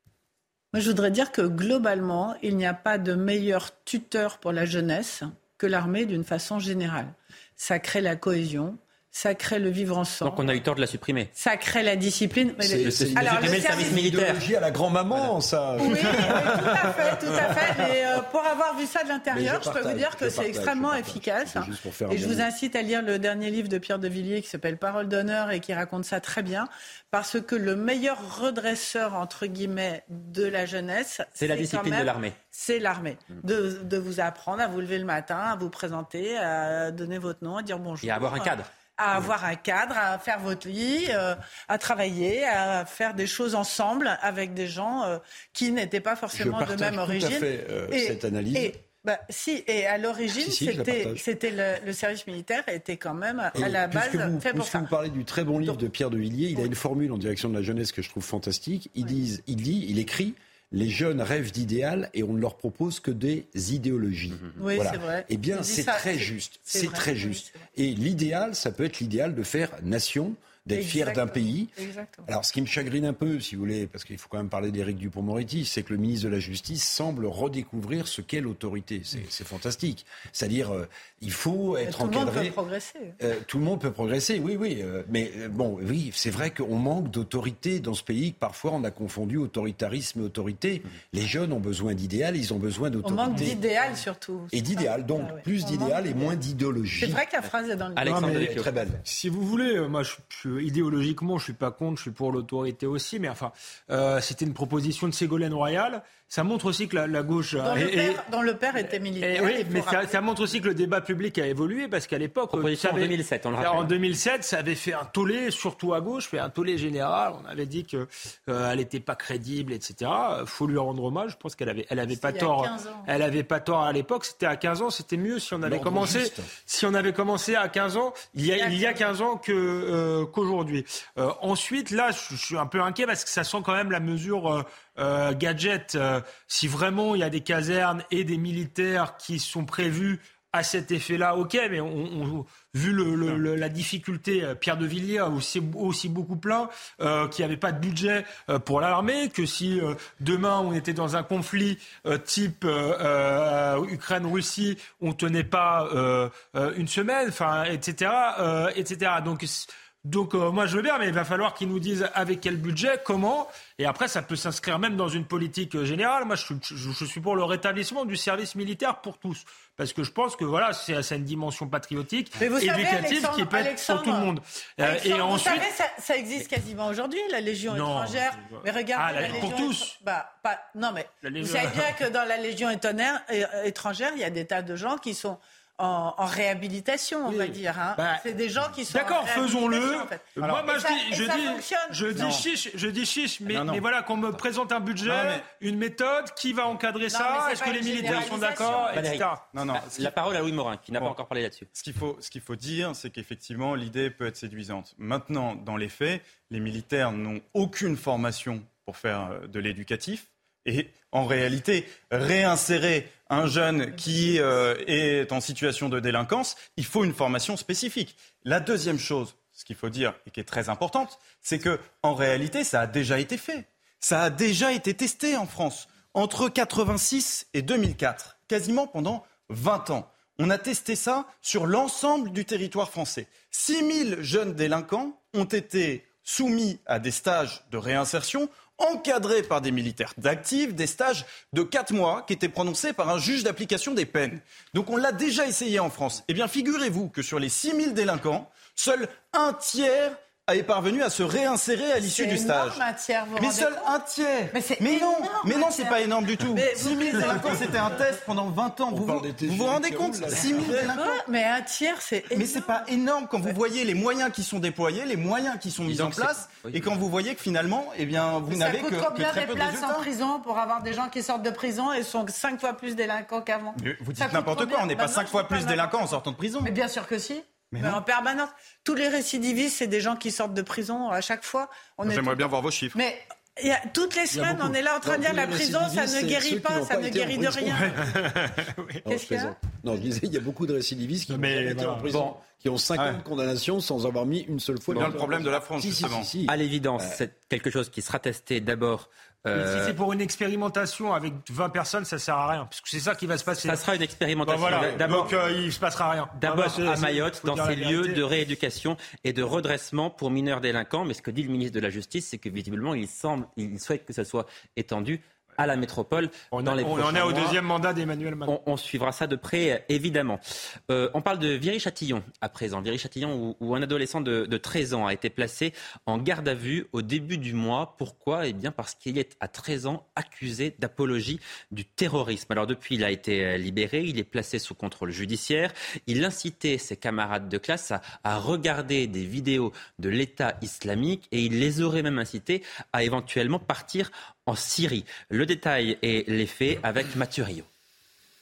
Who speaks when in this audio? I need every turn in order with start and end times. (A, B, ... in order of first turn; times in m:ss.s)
0:00.7-0:10.5 A
0:10.2-0:11.3 B
0:11.3-0:14.0 A
0:12.6-0:16.9 C
0:12.8-0:14.4 B
0:15.8-0:54.8 A
0:19.3-0:22.4 C
0:31.4-0:32.4 B
0:38.0-0:38.7 B
0:46.3-0:48.7 C
0:50.3-0:51.2 C
0:53.6-1:11.7 C
1:04.6-1:07.7 A
1:10.7-1:12.3 A
1:12.3-1:22.6 C
1:21.8-1:23.1 A
1:23.2-1:33.6 C
1:33.0-1:36.3 A
1:34.5-1:37.2 C
1:37.0-1:38.4 A
1:38.0-1:38.7 B
1:38.1-1:39.0 C
1:39.0-1:48.2 D
1:47.6-1:50.2 A
1:48.8-2:55.7 D
1:52.5-1:53.9 B
2:02.1-2:03.1 A
2:05.6-2:06.5 C
2:08.6-2:09.1 A
2:52.4-2:54.3 A
2:54.8-3:12.1 A
2:57.7-2:59.9 D
3:01.2-3:02.0 D
3:07.3-3:08.2 D
3:08.9-3:19.5 D
3:10.4-3:10.6 E
3:12.1-3:12.4 E
3:13.5-3:13.8 E
3:15.0-3:15.4 E
3:17.1-3:19.1 A
3:18.9-3:21.7 B
3:19.5-3:20.1 E
3:21.7-4:12.8 E
4:12.0-4:13.9 A
4:13.4-4:21.2 E
4:14.5-4:16.0 A
4:16.5-4:17.9 A
4:18.9-4:21.0 C
4:20.9-4:22.9 A
4:22.3-4:30.1 E
4:25.9-4:26.9 B
4:28.5-4:36.0 A
4:33.8-4:36.7 E
4:36.6-4:48.0 A
4:37.7-4:38.0 E
4:42.0-4:43.0 E
4:44.3-4:44.7 D
4:45.0-4:48.0 C
4:48.0-4:49.0 D
4:49.0-4:57.2 C
4:49.1-4:49.6 A
4:51.3-4:52.1 D
4:52.1-4:52.3 B
4:54.9-4:56.3 E
4:56.5-5:00.0 B
4:59.5-5:03.8 D
5:03.5-5:05.3 B
5:04.4-5:08.2 D
5:06.4-5:17.6 B
5:16.5-5:18.5 D
5:18.5-5:47.7 B